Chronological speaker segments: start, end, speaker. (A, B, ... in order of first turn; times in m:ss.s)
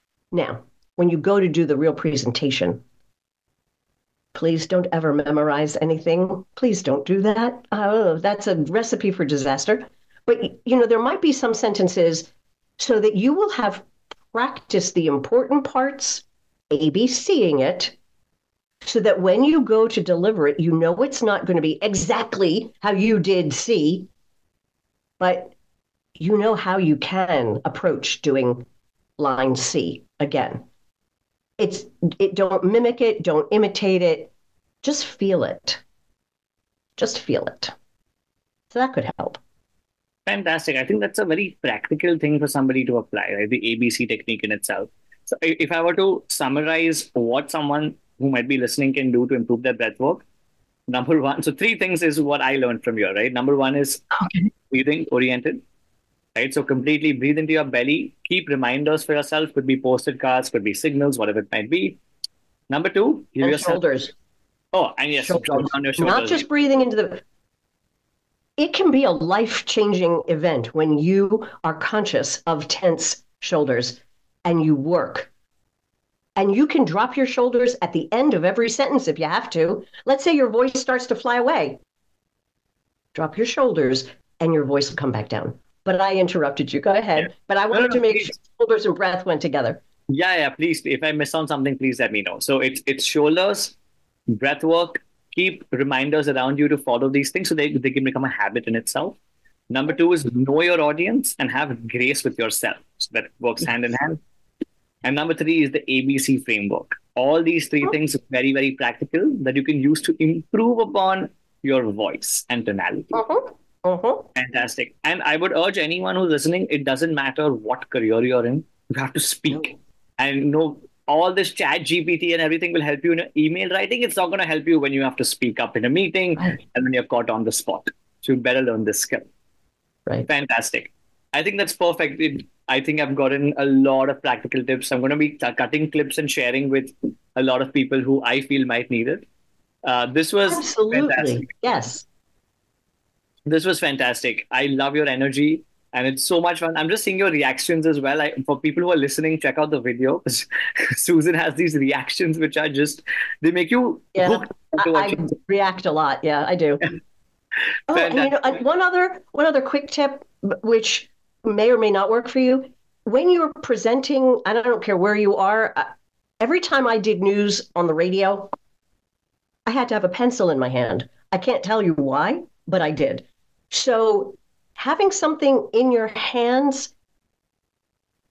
0:00.3-0:02.8 A
0:04.3-0:17.9 A
0:18.8-0:24.1 A
0:25.2-0:25.5 A
0:26.2-0:28.6 A
0:29.2-0:30.6 A
0:31.6-0:34.3 A
0:34.8-0:35.8 A
0:37.0-0:37.7 A
0:38.7-0:39.4 A
0:40.3-0:50.2 B
0:50.9-0:54.1 B
0:54.7-0:55.6 B
0:56.4-1:02.0 B
1:02.7-1:03.8 B
1:03.4-1:04.1 A
1:04.7-1:06.4 B
1:05.2-1:07.2 A
1:08.6-1:15.3 A
1:16.4-1:21.8 A
1:23.1-1:29.8 A
1:27.7-1:28.3 B
1:30.1-1:33.8 B
1:34.3-1:39.2 B
1:39.7-1:44.2 B
1:45.0-1:53.2 B
1:53.1-1:54.3 A
1:54.4-2:09.3 B
2:10.3-2:19.2 B
2:19.8-2:21.6 B
2:20.5-2:22.0 A
2:23.4-2:35.2 B
2:34.1-2:36.9 A
2:37.9-2:45.9 A
2:37.9-2:38.4 B
2:46.4-2:48.5 A
2:49.6-2:56.9 A